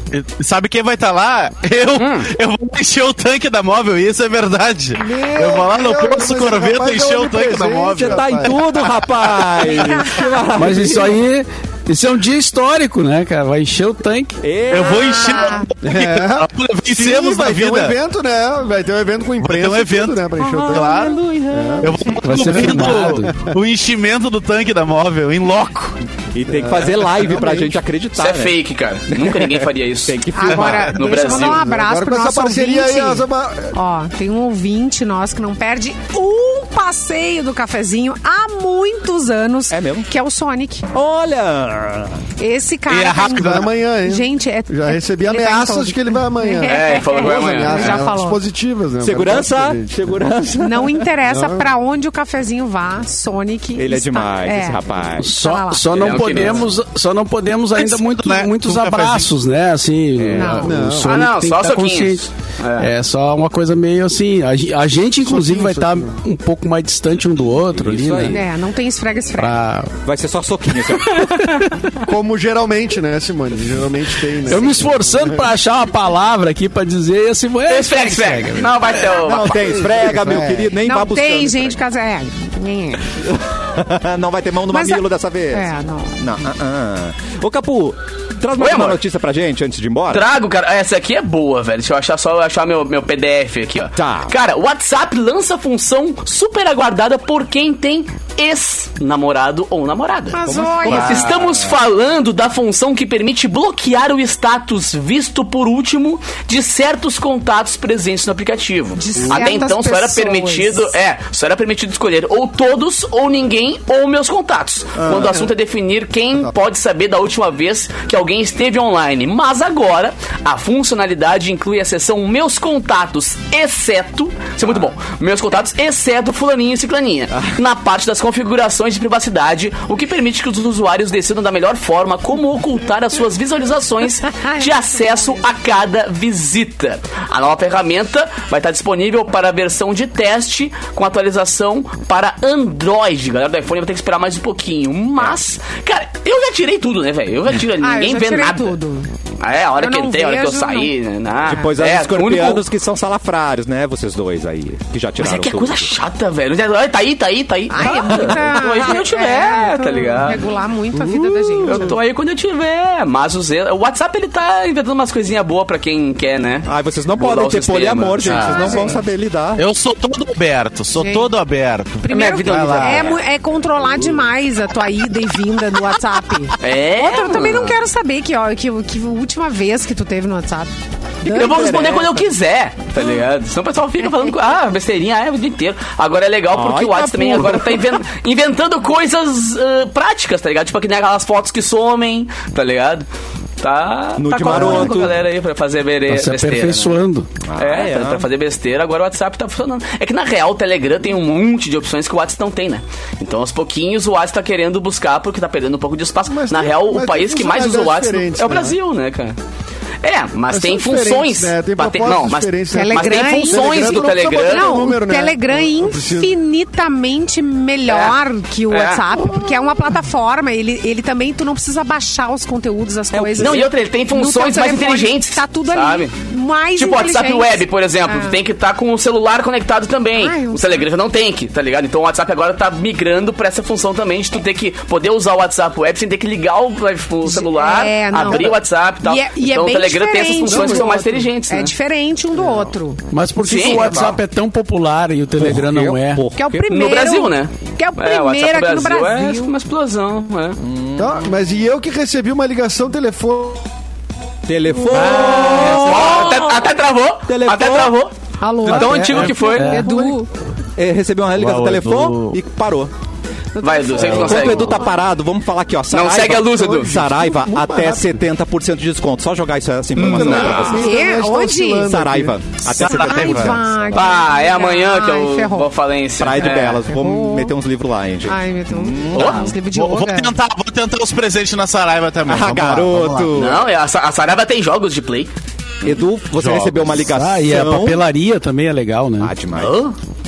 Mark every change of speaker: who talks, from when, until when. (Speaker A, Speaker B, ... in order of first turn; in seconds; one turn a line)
Speaker A: 0.1-8.2
Speaker B: 2.0-2.3
Speaker C: 5.0-8.6
Speaker D: 8.0-11.2
Speaker A: 9.5-10.0
Speaker E: 10.6-14.4
Speaker D: 14.4-15.4
Speaker A: 14.7-17.9
Speaker F: 15.1-15.7
Speaker C: 15.8-21.0
Speaker A: 19.4-21.2
Speaker D: 20.4-22.1
Speaker C: 21.5-23.6
Speaker A: 21.8-26.0
Speaker E: 22.2-23.4
Speaker D: 26.3-28.6
Speaker C: 26.5-27.8
Speaker B: 28.2-30.3
Speaker D: 29.1-31.3
Speaker F: 30.3-40.9
Speaker A: 30.5-31.5
Speaker B: 30.8-31.6
Speaker C: 31.6-33.8
Speaker D: 39.7-40.1
Speaker D: 40.9-42.2
Speaker F: 42.4-48.4
Speaker A: 42.9-43.7
Speaker C: 43.3-50.3
Speaker B: 46.6-48.1
Speaker D: 49.0-51.1
Speaker F: 50.6-56.0
Speaker C: 51.3-51.7
Speaker D: 53.8-55.4
Speaker E: 55.2-68.4
Speaker B: 55.9-56.7
Speaker A: 57.8-59.3
Speaker B: 60.2-62.9
Speaker F: 60.3-60.7
Speaker C: 60.6-61.2
Speaker C: 65.2-66.2
Speaker D: 67.6-68.4
Speaker F: 68.3-69.6
Speaker E: 69.4-69.9
Speaker D: 70.0-71.4
Speaker B: 71.1-71.5
Speaker E: 71.2-71.7
Speaker C: 72.0-75.5
Speaker E: 74.5-79.1
Speaker B: 77.7-80.0
Speaker D: 79.2-81.8
Speaker C: 79.5-80.8
Speaker F: 80.8-83.1
Speaker D: 83.3-90.3
Speaker F: 84.7-86.2
Speaker B: 88.6-89.0
Speaker B: 90.1-148.7
Speaker D: 94.0-94.3
Speaker F: 100.3-101.3
Speaker D: 100.4-101.8
Speaker A: 100.9-101.5
Speaker F: 109.0-110.9
Speaker D: 115.0-115.5
Speaker F: 134.3-135.5
Speaker F: 147.8-149.1
Speaker B: 149.4-152.7
Speaker F: 149.8-150.9
Speaker D: 151.4-155.9
Speaker B: 155.2-160.4
Speaker F: 157.7-162.0
Speaker D: 158.1-158.4
Speaker B: 161.0-168.9
Speaker D: 166.7-169.7
Speaker F: 168.2-169.0
Speaker A: 168.3-168.6
Speaker A: 169.6-173.1
Speaker F: 171.0-171.3
Speaker F: 172.0-180.7
Speaker B: 172.1-173.2
Speaker B: 176.6-177.8
Speaker D: 181.2-182.3
Speaker B: 181.3-193.1
Speaker D: 186.5-188.0
Speaker B: 193.6-197.0
Speaker D: 194.2-195.2
Speaker E: 194.6-194.9
Speaker E: 196.1-197.3
Speaker D: 197.5-198.3
Speaker B: 197.6-209.4
Speaker C: 206.2-208.8
Speaker B: 210.0-214.7
Speaker C: 210.5-216.4
Speaker F: 212.7-228.4
Speaker B: 217.9-218.2
Speaker B: 218.7-219.4
Speaker D: 223.1-223.7
Speaker B: 223.4-226.1
Speaker B: 226.8-241.7
Speaker F: 230.2-230.9
Speaker F: 237.2-243.0
Speaker C: 242.3-242.8
Speaker E: 243.1-246.2
Speaker B: 243.4-244.2
Speaker D: 245.4-247.0
Speaker F: 246.3-249.5
Speaker B: 246.7-250.6
Speaker D: 250.6-251.2
Speaker C: 251.0-253.7
Speaker D: 254.5-256.5
Speaker A: 254.9-255.9
Speaker B: 254.9-259.9
Speaker F: 255.1-256.7
Speaker D: 257.3-257.9
Speaker F: 258.4-260.3
Speaker D: 258.7-258.9
Speaker E: 258.7-260.0
Speaker A: 259.1-259.5
Speaker D: 260.8-262.9
Speaker A: 261.3-262.4
Speaker F: 263.6-264.9
Speaker B: 263.6-264.9
Speaker D: 264.0-270.9
Speaker B: 265.9-266.9
Speaker C: 266.4-268.2
Speaker B: 270.0-270.8
Speaker C: 270.0-272.4
Speaker F: 270.6-271.9
Speaker D: 271.8-274.2
Speaker F: 272.7-275.7
Speaker A: 272.7-273.6
Speaker B: 273.9-276.9
Speaker D: 276.2-279.5
Speaker F: 276.4-277.6
Speaker F: 278.2-280.4
Speaker B: 279.1-279.6
Speaker A: 279.6-283.4
Speaker D: 282.3-283.7
Speaker B: 283.4-285.3
Speaker D: 285.8-288.0
Speaker A: 286.4-286.9
Speaker E: 286.9-289.3
Speaker D: 289.2-289.8
Speaker B: 289.5-289.9